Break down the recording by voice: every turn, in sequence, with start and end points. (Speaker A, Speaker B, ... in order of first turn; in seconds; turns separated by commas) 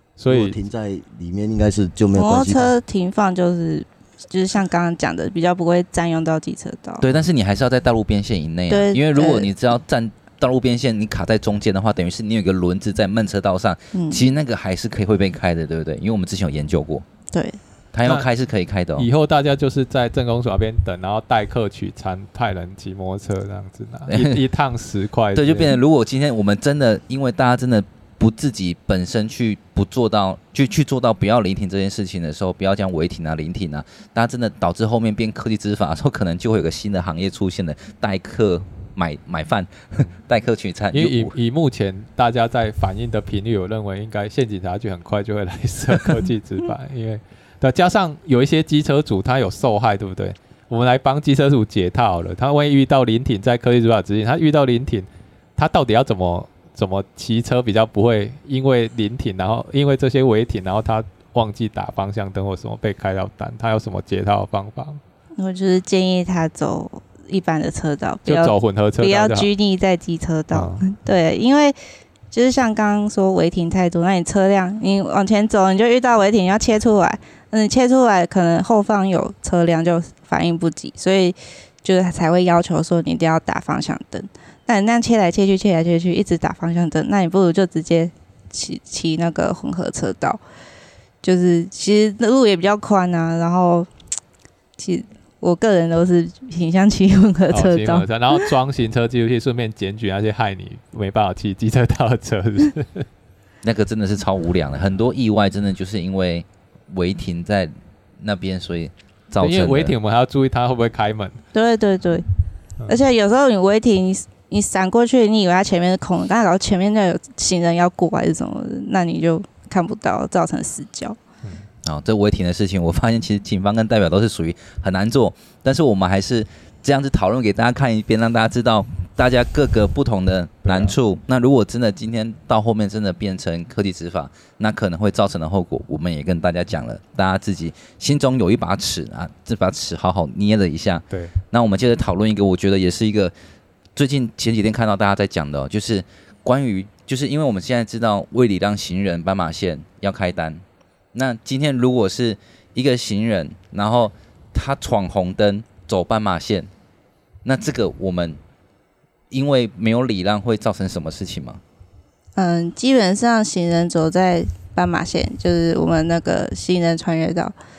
Speaker A: 0.2-0.6, Speaker B: 0.3-2.7, Speaker C: 2.1-7.0, Speaker D: 7.0-17.1, Speaker C: 8.7-9.5, Speaker C: 13.9-14.2, Speaker C: 17.3-17.6, Speaker D: 17.9-19.1, Speaker A: 19.0-25.8, Speaker D: 24.1-24.4, Speaker D: 25.4-41.3, Speaker A: 40.9-65.0, Speaker C: 65.4-71.8, Speaker A: 68.3-69.5, Speaker A: 70.5-70.8, Speaker C: 72.3-90.4, Speaker C: 91.2-93.9, Speaker C: 94.8-98.5, Speaker A: 97.5-103.1, Speaker D: 103.6-109.9, Speaker A: 109.4-111.4, Speaker C: 111.5-112.2, Speaker C: 112.9-121.2, Speaker D: 121.8-143.3, Speaker A: 130.7-131.0, Speaker A: 141.1-141.3, Speaker D: 144.0-150.6, Speaker D: 151.1-156.7, Speaker D: 157.4-158.4, Speaker D: 159.3-161.6, Speaker C: 162.4-167.5